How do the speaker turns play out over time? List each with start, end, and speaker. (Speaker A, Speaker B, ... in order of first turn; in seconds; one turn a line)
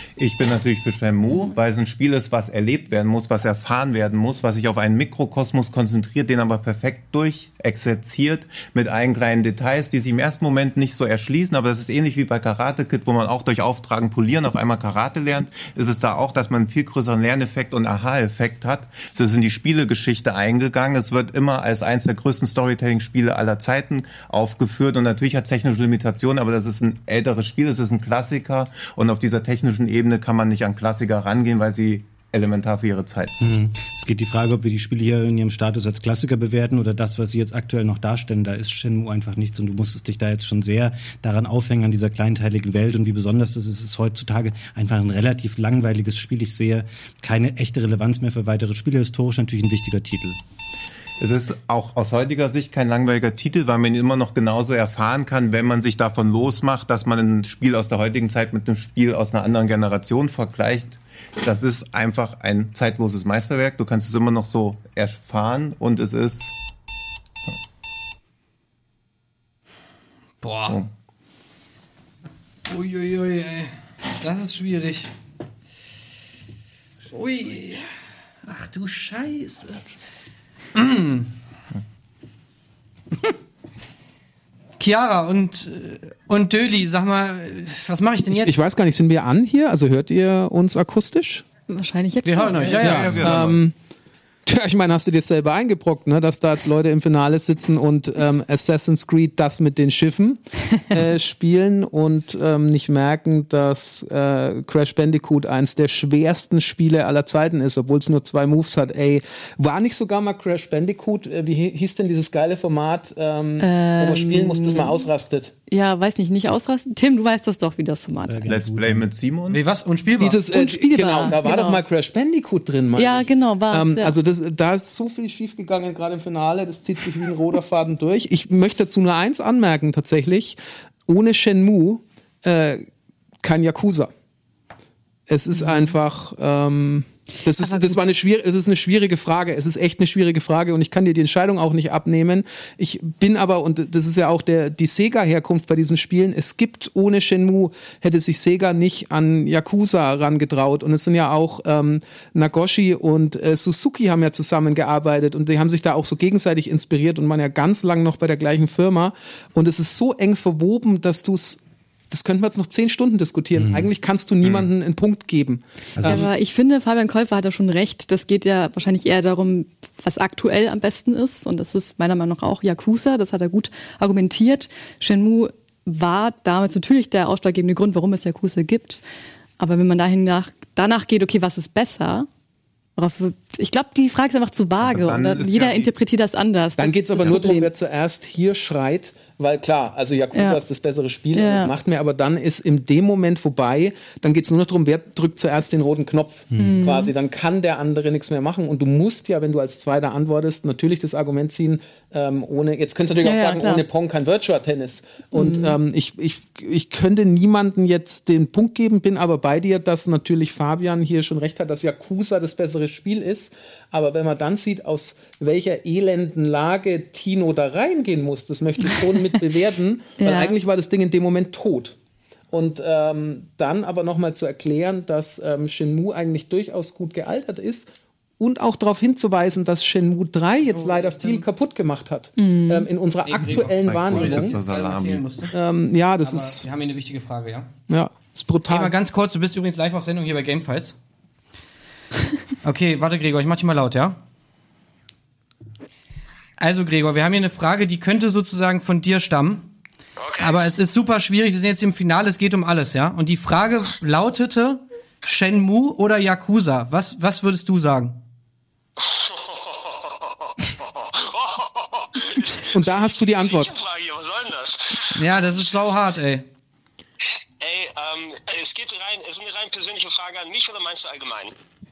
Speaker A: 0.2-33.5
Speaker B: 33.4-50.4
Speaker A: 51.2-66.5
Speaker C: 70.4-70.8
Speaker C: 72.7-75.1
Speaker C: 77.1-77.9
Speaker C: 78.4-79.8
Speaker C: 80.7-81.3
Speaker C: 84.8-88.6
Speaker D: 88.3-91.4
Speaker E: 91.7-93.0
Speaker C: 92.2-93.4
Speaker A: 92.6-93.6
Speaker D: 92.7-93.7
Speaker D: 94.4-100.4
Speaker D: 100.9-115.5
Speaker E: 113.6-115.0
Speaker E: 115.7-118.5
Speaker B: 118.3-119.1
Speaker A: 118.5-119.6
Speaker C: 119.5-120.4
Speaker D: 120.2-132.9
Speaker E: 120.5-121.8
Speaker E: 123.0-124.2
Speaker D: 133.4-134.1
Speaker D: 135.3-166.2
Speaker E: 135.6-135.9
Speaker E: 137.6-138.0
Speaker B: 163.6-163.9
Speaker B: 165.9-166.3
Speaker E: 166.0-179.0
Speaker E: 179.6-182.3
Speaker E: 183.0-187.7
Speaker A: 184.8-185.9
Speaker D: 186.8-221.9
Speaker E: 190.3-190.6
Speaker E: 191.3-191.7
Speaker B: 196.5-196.8
Speaker E: 196.6-197.1
Speaker E: 203.2-203.8
Speaker E: 205.3-205.8
Speaker E: 220.2-220.5
Speaker D: 222.5-234.6
Speaker C: 230.6-231.4
Speaker E: 232.4-232.9
Speaker C: 233.2-235.5
Speaker A: 233.5-235.2
Speaker D: 235.5-236.7
Speaker C: 236.2-237.7
Speaker D: 237.9-238.9
Speaker C: 238.7-240.9
Speaker C: 242.6-244.2
Speaker C: 246.6-249.7
Speaker F: 250.2-250.6
Speaker C: 250.4-258.2
Speaker F: 259.0-266.0
Speaker D: 262.7-263.7
Speaker C: 265.1-266.4
Speaker F: 267.6-271.6